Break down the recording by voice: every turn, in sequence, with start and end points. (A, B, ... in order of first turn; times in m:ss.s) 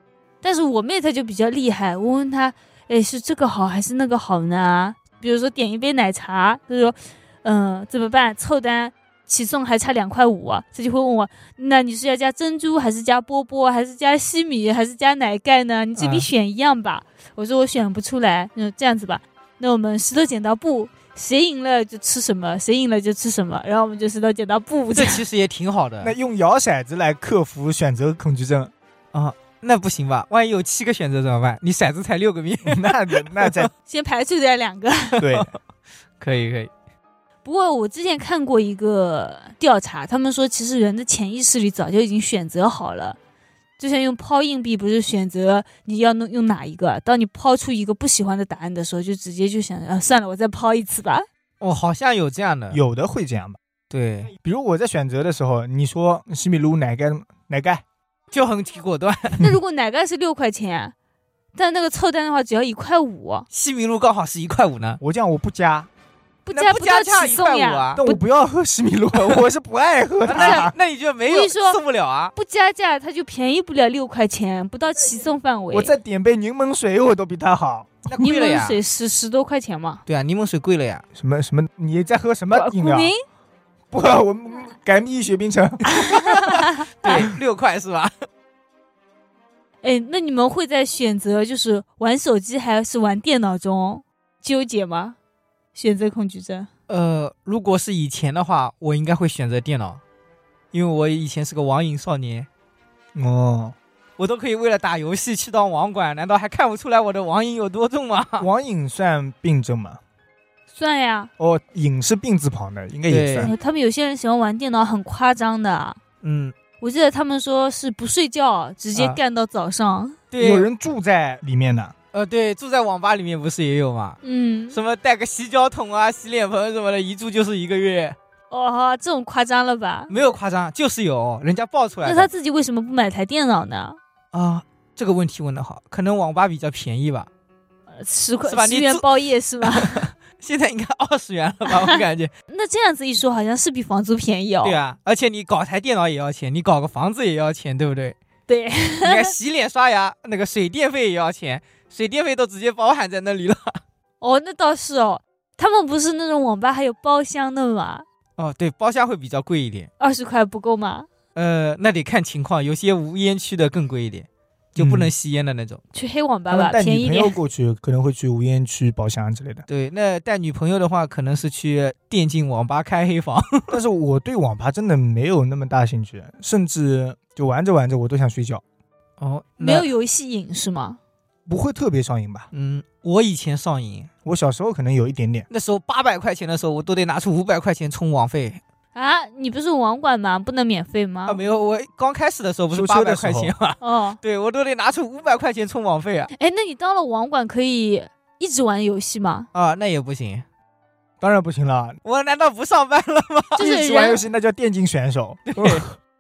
0:00.4-0:25.2 A
0:16.0-0:16.3 B
0:25.0-0:26.1 B
0:26.0-0:28.7 C
0:29.1-0:33.7 B
0:32.6-0:33.7 C
0:33.9-0:35.2 A
0:35.2-0:35.5 C
0:35.2-0:35.5 B
0:36.2-0:36.7 B
0:37.4-0:43.2 A
0:43.8-0:51.3 A
0:51.6-0:52.8 B
0:52.7-0:53.6 C
0:53.9-0:54.3 B
0:54.4-0:57.8 C
0:58.3-0:59.4 B
0:59.4-1:00.9 A
1:01.6-1:03.5 A
1:03.5-1:05.0 B
1:05.0-1:05.9 C
1:06.5-1:08.2 A
1:06.5-1:08.0 B
1:08.0-1:10.7 C
1:10.3-1:12.3 B
1:10.3-1:10.7 A
1:11.3-1:11.8 A
1:12.4-1:15.9 A
1:15.7-1:18.0 C
1:18.1-1:18.8 B
1:18.1-1:20.0 A
1:20.1-1:21.0 B
1:21.2-1:23.1 C
1:22.5-1:23.2 A
1:23.9-1:26.4 C
1:25.9-1:27.2 A
1:27.0-1:28.1 B
1:29.8-1:35.2 A
1:35.7-1:36.7 A
1:36.9-1:40.0 B
1:40.7-1:42.5 B
1:43.2-1:43.8 C
1:44.2-1:48.5 B
1:48.4-1:50.0 C
1:50.7-1:51.3 A
1:51.4-1:53.5 C
1:53.1-1:53.5 B
1:53.4-1:56.0 A
1:56.2-1:56.5 B
1:56.8-2:00.2 A
2:00.3-2:00.7 B
2:00.4-2:01.9 C
2:02.1-2:04.2 B
2:04.2-2:04.8 A
2:04.7-2:08.2 B
2:08.5-2:10.1 A
2:10.1-2:12.3 B
2:12.0-2:14.0 A
2:14.3-2:17.3 B
2:17.9-2:20.1 A
2:18.4-2:22.3 B
2:22.5-2:24.8 A
2:24.6-2:28.2 B
2:28.5-2:29.3 A
2:29.0-2:33.8 B
2:34.2-2:38.0 A
2:38.4-2:39.9 B
2:40.0-2:41.1 A
2:41.4-2:45.8 B
2:44.8-2:45.1 C
2:45.9-2:47.3 A
2:46.5-2:49.6 C
2:49.7-2:53.8 B
2:53.7-2:58.6 C
2:59.2-2:59.9 B
2:59.6-3:01.0 A
3:01.5-3:02.5 C
3:02.5-3:04.1 B
3:04.2-3:05.5 C
3:05.5-3:08.6 B
3:09.0-3:11.4 A
3:11.3-3:16.3 B
3:12.7-3:13.5 C
3:13.8-3:14.2 A
3:16.4-3:19.5 A
3:19.5-3:20.4 B
3:21.2-3:22.0 C
3:22.0-3:23.6 B
3:23.6-3:24.2 A
3:23.6-3:25.9 C
3:25.5-3:25.8 B